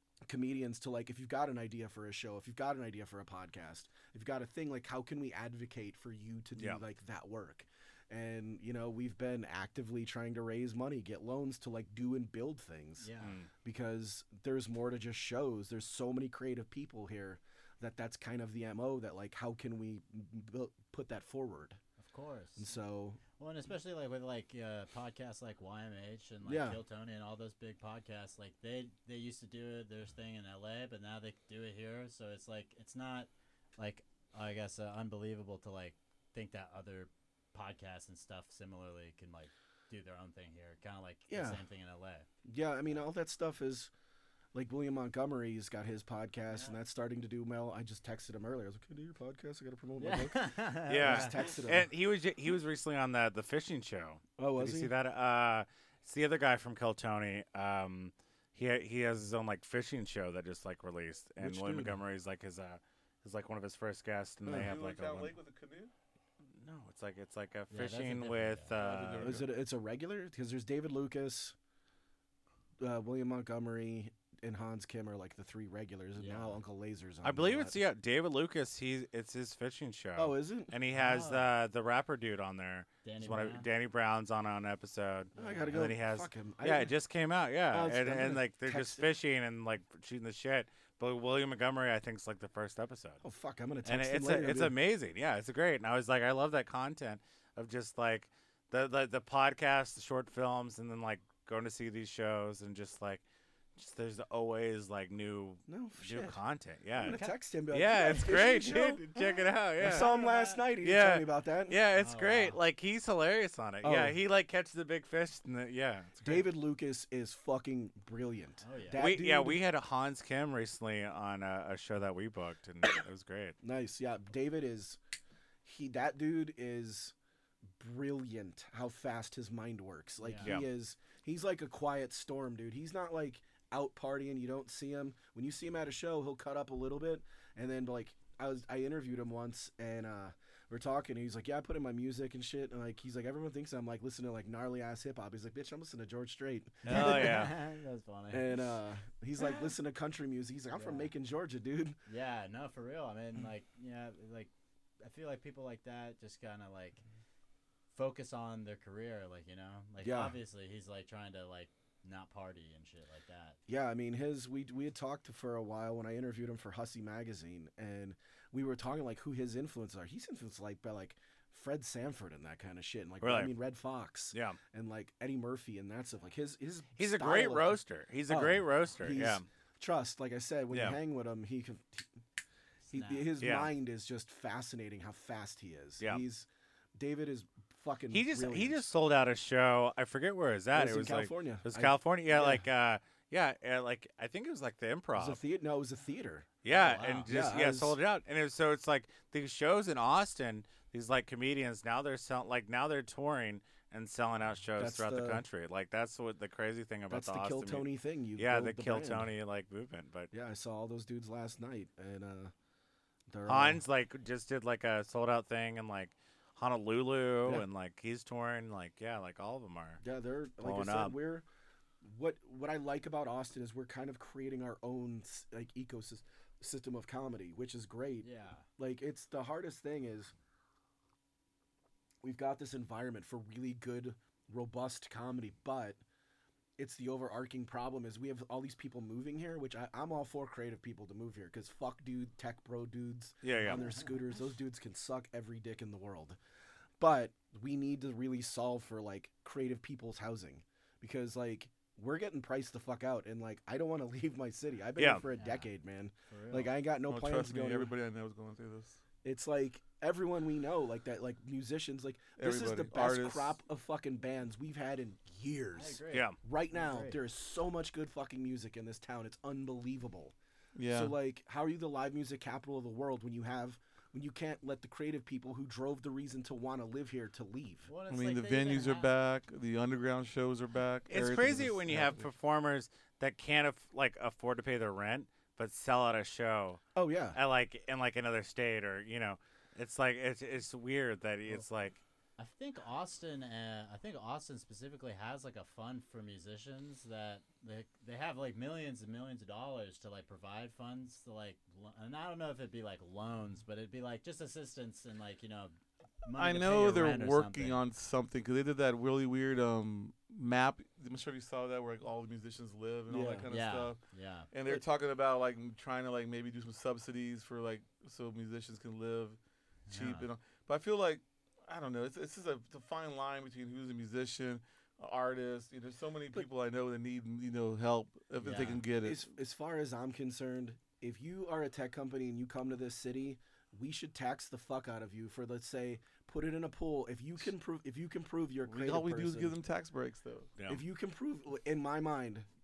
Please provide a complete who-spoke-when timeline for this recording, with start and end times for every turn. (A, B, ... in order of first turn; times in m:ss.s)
0:00.2-0:13.1 A
0:13.0-0:13.4 B
0:13.2-0:13.5 C
0:13.6-0:21.8 A
0:22.0-0:22.7 B
0:22.6-0:23.2 A
0:23.4-0:42.3 B
0:26.4-0:26.8 A
0:41.3-0:41.6 A
0:42.4-0:43.9 A
0:44.5-0:51.9 A
0:50.0-0:51.4 B
0:50.9-1:05.3 C
0:54.4-0:54.9 A
1:01.4-1:02.0 A
1:04.4-1:04.8 A
1:04.5-1:05.9 D
1:06.5-1:09.3 C
1:07.7-1:08.7 B
1:08.8-1:09.5 D
1:09.2-1:11.6 A
1:12.8-1:17.8 A
1:16.2-1:16.6 B
1:17.2-1:33.2 C
1:20.2-1:20.7 A
1:20.9-1:21.5 B
1:23.0-1:23.6 B
1:25.3-1:25.8 B
1:25.4-1:26.9 A
1:27.7-1:29.1 A
1:33.2-1:34.8 A
1:33.8-1:43.2 C
1:43.8-1:50.1 C
1:45.7-1:46.4 A
1:47.0-1:49.2 A
1:47.1-1:47.3 B
1:49.8-1:51.8 A
1:49.8-1:50.6 B
1:50.8-1:56.4 C
1:52.0-1:52.6 B
1:53.8-1:54.2 A
1:56.2-1:59.6 A
1:58.6-1:59.0 B
1:58.9-2:03.6 C
2:03.6-2:05.0 A
2:05.6-2:07.1 A
2:07.8-2:27.5 A
2:10.2-2:10.5 B
2:26.8-2:27.6 C
2:26.8-2:28.7 B
2:28.3-2:32.0 A
2:30.8-2:31.1 B
2:32.0-2:37.0 B
2:37.9-2:43.6 B
2:40.0-2:40.4 A
2:43.7-3:02.1 A
2:53.2-2:53.5 C
2:54.3-2:54.6 C
2:57.0-2:59.4 C
3:00.7-3:01.0 C
3:02.9-3:03.3 B
3:02.9-3:08.9 A
3:03.4-3:03.7 C
3:08.1-3:15.4 C
3:10.7-3:12.6 A
3:15.1-3:16.5 A
3:16.6-3:30.3 C
3:16.6-3:17.3 B
3:17.2-3:18.0 A
3:24.8-3:25.4 A
3:27.1-3:29.3 A
3:30.3-3:32.5 A
3:33.3-3:33.8 A
3:33.4-3:40.0 C
3:40.0-3:41.4 A
3:40.6-3:41.2 C
3:42.0-3:50.3 A
3:48.2-3:48.7 B
3:52.2-3:56.0 A
3:56.8-4:06.4 A
4:03.4-4:03.8 C
4:03.7-4:04.0 B
4:07.0-4:17.9 A
4:15.0-4:15.2 C
4:15.3-4:15.7 B
4:16.3-4:16.7 B
4:17.1-4:19.0 D
4:19.2-4:30.3 A
4:22.4-4:23.6 D
4:25.7-4:27.2 B
4:30.8-4:31.1 D
4:30.9-4:37.9 A
4:37.9-4:39.1 B
4:38.1-4:42.2 D
4:41.1-4:46.8 C
4:46.9-4:47.4 A
4:47.3-4:52.0 C
4:52.4-5:07.8 B
5:06.3-5:14.0 D
5:13.1-5:13.5 A
5:13.5-5:14.5 B
5:14.5-5:19.4 D
5:19.9-5:20.3 B
5:19.9-5:29.2 D
5:28.4-5:28.8 B
5:29.0-5:39.6 A
5:38.7-5:40.5 D
5:40.7-5:42.5 A